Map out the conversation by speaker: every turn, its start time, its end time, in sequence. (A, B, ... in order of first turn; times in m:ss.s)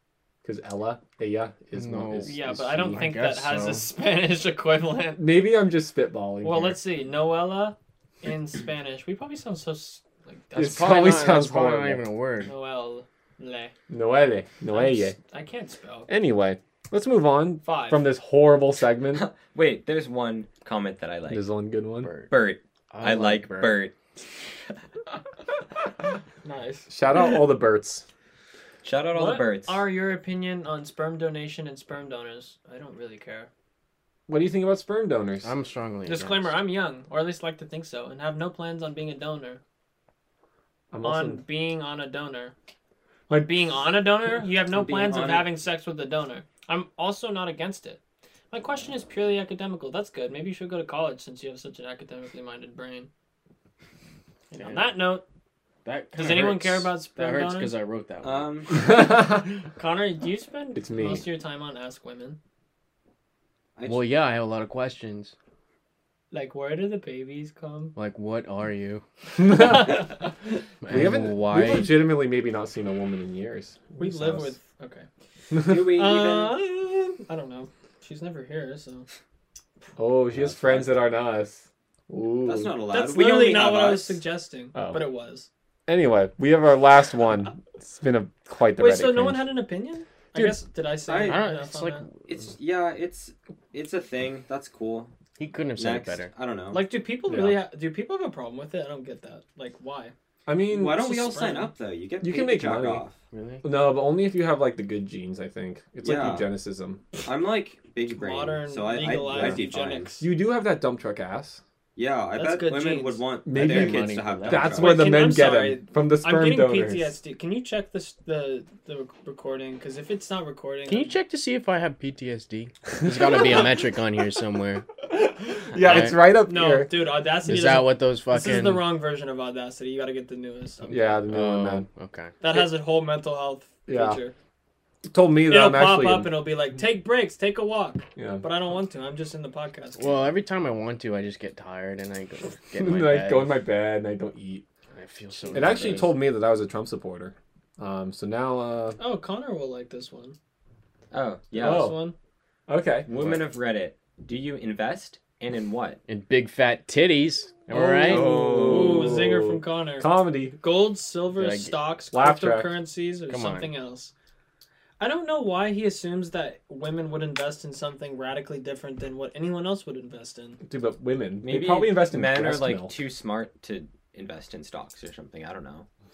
0:00.4-0:02.8 A
0:01.8-0:03.9 B
0:02.3-0:05.3 C
0:05.2-0:06.8 A
0:06.4-0:10.9 C
0:10.6-0:12.0 A
0:10.6-0:12.5 B
0:12.5-0:13.7 C
0:13.9-0:15.2 A
0:14.7-0:16.1 C
0:16.1-0:19.2 A
0:17.6-0:18.0 C
0:19.1-0:21.5 D
0:21.3-0:22.1 A
0:22.0-0:22.3 B
0:22.3-0:23.9 D
0:22.9-0:23.8 B
0:26.4-0:27.2 C
0:26.9-0:28.0 A
0:28.8-0:29.8 D
0:29.1-0:33.5 C
0:34.3-0:35.5 A
0:35.4-0:36.5 B
0:36.1-0:39.6 C
0:40.9-0:41.4 A
0:41.0-0:42.5 C
0:43.3-0:43.6 A
0:43.3-0:48.0 C
0:44.7-0:45.5 D
0:48.5-0:53.1 C
0:54.5-0:55.2 C
0:54.6-0:55.0 B
0:55.8-0:58.6 B
0:56.1-0:57.7 C
0:58.2-0:58.7 D
0:58.7-0:59.5 A
0:59.8-1:02.4 C
1:00.8-1:01.2 A
1:03.8-1:04.1 D
1:03.9-1:05.3 B
1:06.3-1:08.0 C
1:08.0-1:09.0 B
1:09.4-1:10.1 A
1:09.5-1:10.2 C
1:10.8-1:12.0 B
1:10.9-1:14.5 A
1:14.0-1:15.1 C
1:15.7-1:16.6 D
1:15.7-1:19.1 C
1:20.0-1:22.7 A
1:20.4-1:20.9 D
1:22.4-1:24.2 D
1:22.9-1:25.5 C
1:24.8-1:25.0 A
1:25.9-1:29.5 A
1:28.8-1:32.1 C
1:31.1-1:31.4 D
1:31.2-1:32.1 B
1:32.2-1:35.1 D
1:35.4-1:36.3 B
1:35.8-1:36.8 D
1:36.7-1:40.1 C
1:37.3-1:37.6 A
1:40.5-1:41.0 A
1:40.7-1:43.2 D
1:40.9-1:41.7 C
1:42.2-1:43.0 A
1:43.3-1:43.6 B
1:43.6-1:47.0 A
1:46.0-1:46.5 D
1:47.2-1:50.1 D
1:48.1-1:50.3 C
1:49.3-1:49.6 B
1:50.2-1:51.6 A
1:52.0-1:55.2 D
1:52.4-1:53.2 C
1:53.5-1:57.2 A
1:53.6-1:54.8 B
1:54.7-2:01.1 C
2:00.9-2:04.9 B
2:03.1-2:03.6 A
2:05.1-2:07.0 A
2:05.8-2:06.1 B
2:06.4-2:11.2 C
2:07.4-2:08.8 B
2:10.9-2:11.9 A
2:11.3-2:12.4 B
2:12.4-2:14.4 C
2:13.9-2:14.2 A
2:15.1-2:16.4 A
2:15.5-2:20.3 C
2:18.2-2:18.4 A
2:20.0-2:23.6 B
2:22.8-2:24.6 A
2:24.9-2:26.2 B
2:25.5-2:29.0 A
2:29.0-2:30.4 C
2:31.1-2:31.9 D
2:31.6-2:32.1 C
2:31.6-2:32.0 A
2:32.7-2:33.1 A
2:33.1-2:36.0 D
2:33.1-2:33.4 B
2:36.1-2:39.2 B
2:37.7-2:40.6 A
2:38.1-2:38.8 D
2:38.6-2:44.1 C
2:41.4-2:41.8 B
2:42.1-2:42.8 A
2:43.3-2:43.7 B
2:45.0-2:50.6 C
2:50.6-2:52.9 A
2:51.4-2:55.9 D